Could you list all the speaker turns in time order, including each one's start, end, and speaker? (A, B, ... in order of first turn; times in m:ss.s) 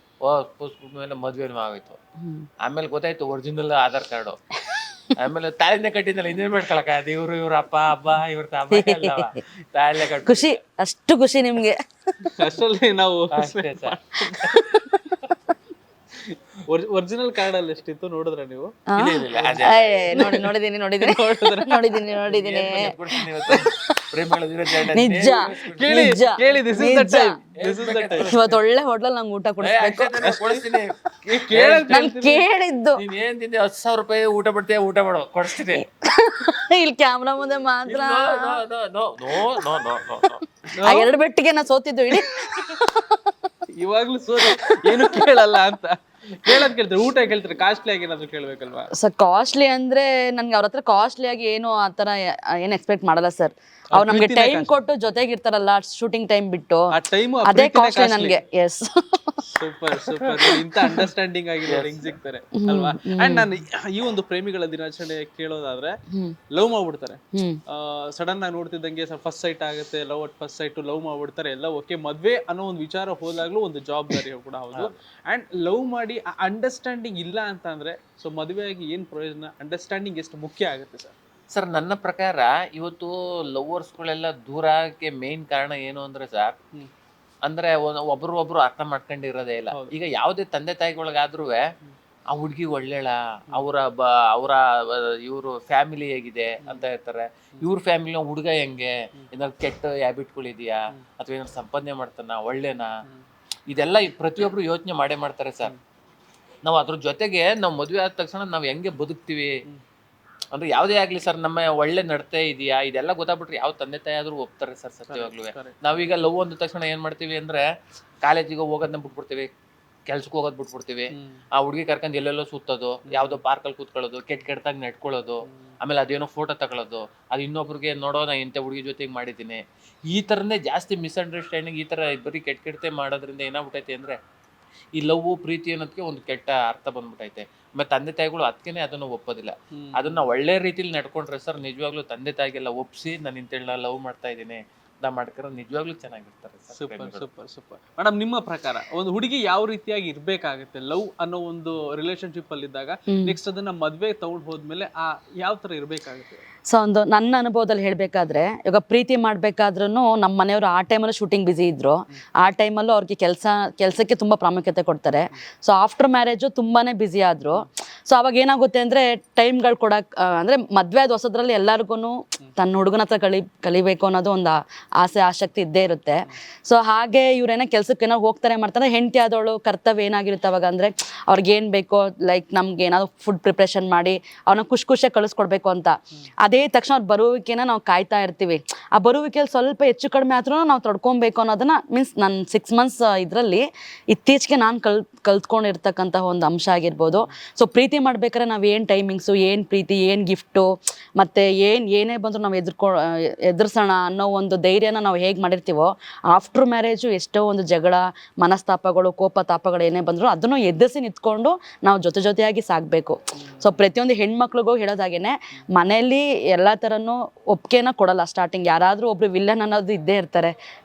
0:00.2-0:02.0 A
0:02.2-0:02.5 B
0:02.6-0:04.4 A
0:05.2-0:10.6 A
0:08.7-0:09.4 B
0:10.2-0:12.3 B
0:12.4-0:14.6 C
0:13.3-0:15.3 A
0:14.4-0:14.8 B
0:16.7-0:18.8 C
0:18.9-0:24.0 B
0:19.0-0:20.0 A
0:19.4-0:20.4 C
0:21.0-0:22.0 C
0:22.3-0:26.2 A
0:24.9-0:27.4 B
0:25.7-0:28.5 C
0:27.6-0:28.3 A
0:28.2-0:30.2 B
0:29.6-0:31.0 A
0:30.2-0:30.6 C
0:31.2-0:32.4 C
0:31.5-0:32.0 A
0:31.9-0:33.0 B
0:33.0-0:35.9 A
0:36.0-0:38.6 B
0:37.9-0:40.4 A
0:39.4-0:39.6 B
0:40.7-0:41.1 C
0:40.9-0:43.5 B
0:43.8-0:48.9 C
0:44.4-0:45.4 B
0:48.9-0:56.9 B
0:53.9-0:54.7 C
0:56.9-0:58.4 C
0:57.4-0:59.5 B
0:59.5-1:06.0 C
1:00.1-1:01.1 B
1:01.7-1:02.1 A
1:02.6-1:03.5 B
1:06.1-1:06.4 B
1:06.5-1:21.1 C
1:07.3-1:07.6 B
1:21.5-1:26.5 A
1:27.4-1:31.6 A
1:32.3-1:42.9 A
1:43.7-1:45.7 A
1:46.6-1:49.5 A
1:50.5-1:57.6 A
1:55.1-1:55.8 C
1:58.2-1:59.5 A
2:00.1-2:14.2 A
2:01.1-2:01.4 C
2:03.1-2:03.4 C
2:14.9-2:27.3 A
2:19.7-2:20.1 C
2:26.8-2:36.4 C
2:33.1-2:33.4 B
2:36.7-3:40.6 B
3:33.4-3:33.7 C